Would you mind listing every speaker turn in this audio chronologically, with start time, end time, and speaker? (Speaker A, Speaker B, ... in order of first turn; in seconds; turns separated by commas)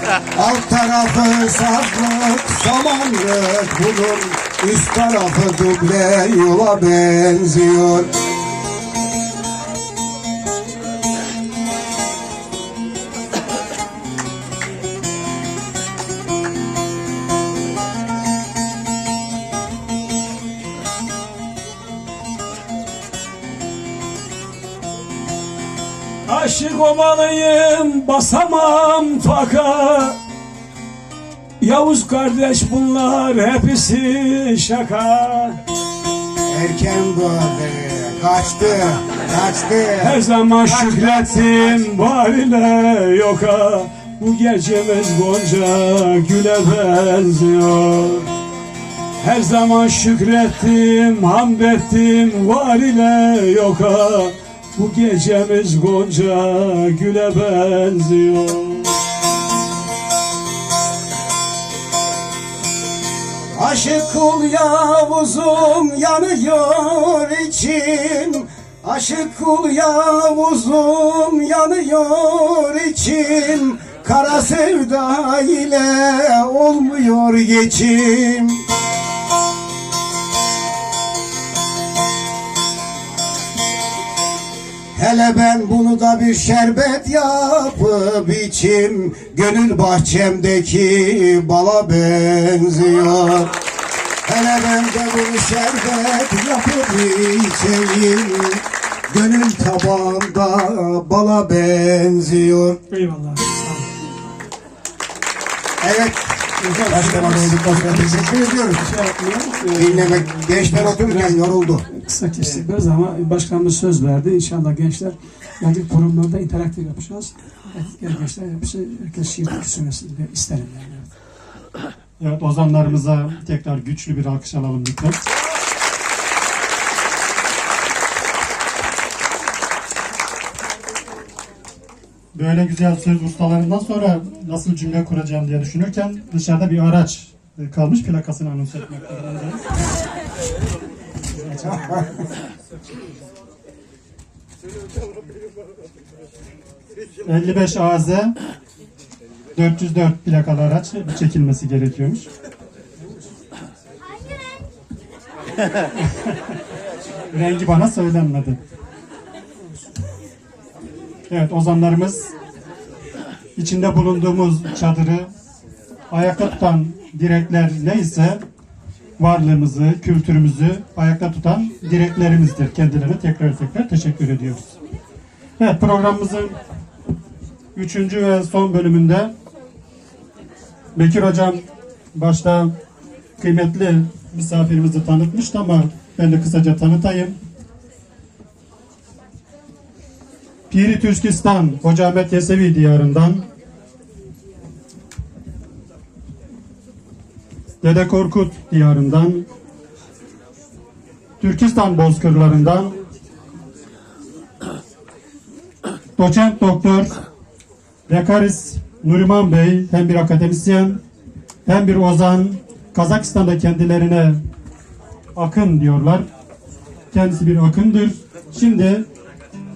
Speaker A: 0.1-8.1, Speaker B: 26.2-30.2, Speaker B: 31.6-35.6, Speaker A: 36.5-41.8, Speaker B: 40.0-48.3, Speaker B: 49.2-59.0, Speaker A: 63.5-78.6, Speaker A: 84.9-93.5, Speaker A: 94.2-102.8, Speaker B: 102.9-103.9, Speaker A: 105.8-108.9, Speaker B: 106.6-111.4, Speaker A: 109.8-111.8, Speaker B: 111.9-121.1, Speaker C: 122.2-125.2, Speaker C: 132.3-139.6, Speaker C: 147.2-148.3, Speaker C: 149.6-152.2, Speaker C: 156.1-156.3, Speaker C: 157.3-158.6, Speaker C: 161.3-162.3, Speaker C: 163.6-165.3, Speaker C: 166.1-168.4, Speaker C: 169.2-174.7, Speaker C: 175.6-176.6, Speaker C: 177.7-179.3, Speaker C: 180.9-182.7, Speaker C: 183.4-187.4, Speaker C: 190.7-193.5, Speaker C: 197.8-199.5, Speaker C: 201.4-203.0, Speaker C: 206.2-207.1, Speaker C: 208.1-211.0, Speaker C: 211.7-214.4, Speaker C: 215.3-216.2, Speaker C: 217.1-219.1